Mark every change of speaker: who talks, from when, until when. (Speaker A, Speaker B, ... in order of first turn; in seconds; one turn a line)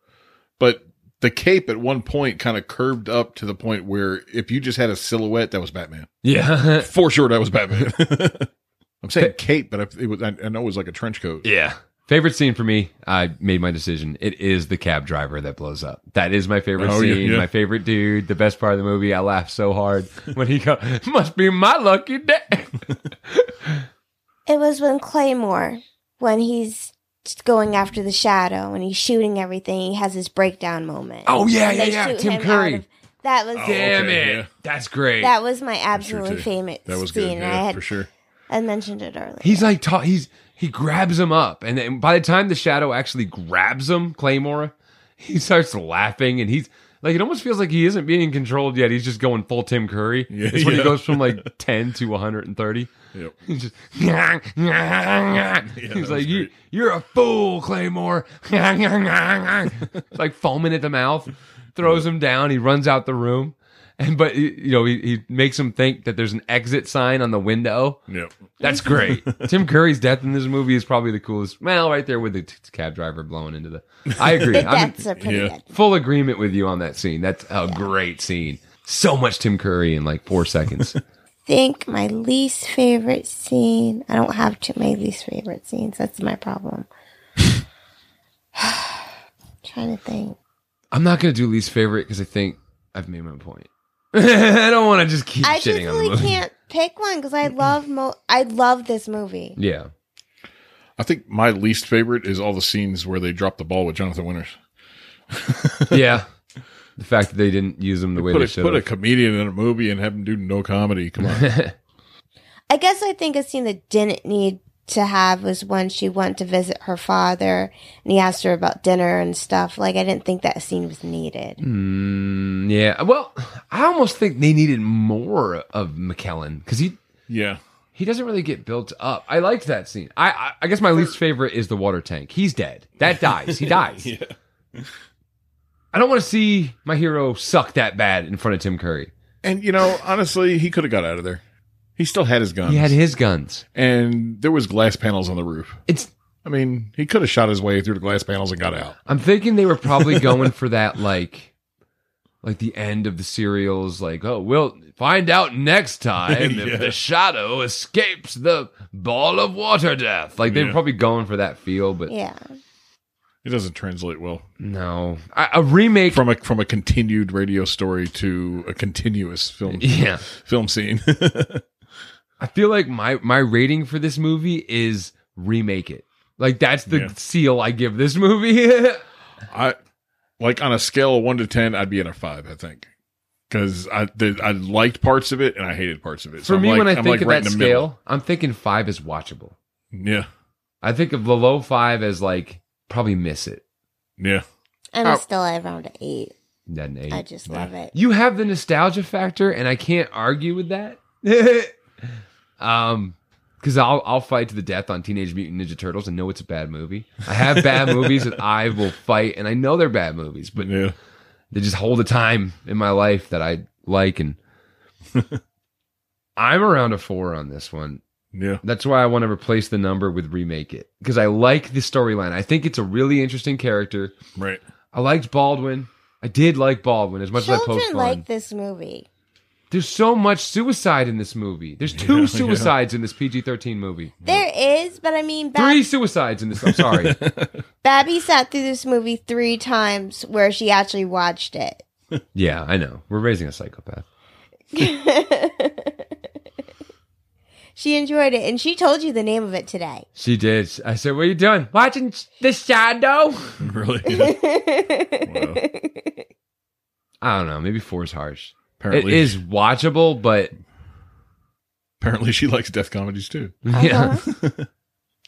Speaker A: 0.6-6.1
Speaker B: 6.2-6.9
Speaker A: 6.8-8.5
Speaker A: 9.0-11.4
Speaker B: 11.4-23.8
Speaker A: 16.8-17.5
Speaker C: 24.5-33.9
Speaker B: 31.2-32.8
Speaker A: 33.5-34.5
Speaker B: 33.6-35.3
Speaker C: 35.2-37.9
Speaker A: 35.9-38.1
Speaker C: 38.5-39.7
Speaker B: 39.4-52.9
Speaker A: 50.3-51.5
Speaker B: 53.4-68.0
Speaker A: 55.7-56.5
Speaker A: 68.1-69.7
Speaker B: 68.6-75.0
Speaker C: 68.6-69.1
Speaker A: 74.2-75.5
Speaker C: 74.5-75.7
Speaker B: 75.7-81.0
Speaker C: 81.5-86.9
Speaker C: 88.5-90.3
Speaker B: 90.9-96.4
Speaker C: 95.4-99.6
Speaker B: 99.5-99.9
Speaker A: 101.0-104.5
Speaker A: 105.3-106.0
Speaker B: 105.9-106.3
Speaker B: 107.0-108.8
Speaker A: 108.2-111.5
Speaker B: 111.2-111.7
Speaker C: 112.7-121.6
Speaker B: 121.6-127.0
Speaker A: 127.3-127.6
Speaker B: 127.9-134.1
Speaker A: 133.1-134.9
Speaker B: 135.9-139.1
Speaker A: 139.4-141.4
Speaker A: 142.0-143.0
Speaker B: 142.6-143.6
Speaker A: 143.7-145.8
Speaker A: 146.4-148.9
Speaker B: 149.1-151.5
Speaker A: 149.9-150.4
Speaker B: 152.4-162.1
Speaker A: 156.2-157.0
Speaker A: 160.5-160.8
Speaker C: 162.1-162.5
Speaker A: 163.4-164.4
Speaker B: 164.6-166.2
Speaker A: 166.1-171.7
Speaker B: 169.7-170.2
Speaker B: 172.4-179.0
Speaker A: 179.5-179.8
Speaker A: 180.4-182.9
Speaker A: 183.5-187.9
Speaker B: 186.4-189.5
Speaker A: 189.9-190.3
Speaker B: 190.8-193.6
Speaker A: 194.2-194.4
Speaker C: 194.9-196.3
Speaker B: 196.7-197.2
Speaker C: 197.1-197.9
Speaker B: 197.9-201.8
Speaker B: 202.6-210.8
Speaker A: 207.6-208.3
Speaker A: 210.5-210.9
Speaker B: 211.5-214.4
Speaker A: 215.1-215.4
Speaker B: 216.3-218.0
Speaker A: 218.3-218.6
Speaker B: 218.6-224.1
Speaker A: 224.3-224.6
Speaker B: 224.9-228.2
Speaker C: 227.3-229.1
Speaker B: 229.7-234.2
Speaker A: 231.9-232.7
Speaker C: 234.2-235.8
Speaker B: 235.5-237.2
Speaker A: 236.6-237.6
Speaker C: 237.8-241.8
Speaker B: 242.3-244.1
Speaker C: 244.7-245.9
Speaker C: 247.8-250.0
Speaker B: 250.2-253.6
Speaker A: 253.6-254.4
Speaker C: 254.1-256.2
Speaker A: 255.2-255.6
Speaker B: 257.2-260.5
Speaker A: 258.8-259.4
Speaker A: 262.0-263.6
Speaker B: 263.6-264.2
Speaker C: 263.7-264.2
Speaker A: 264.3-264.7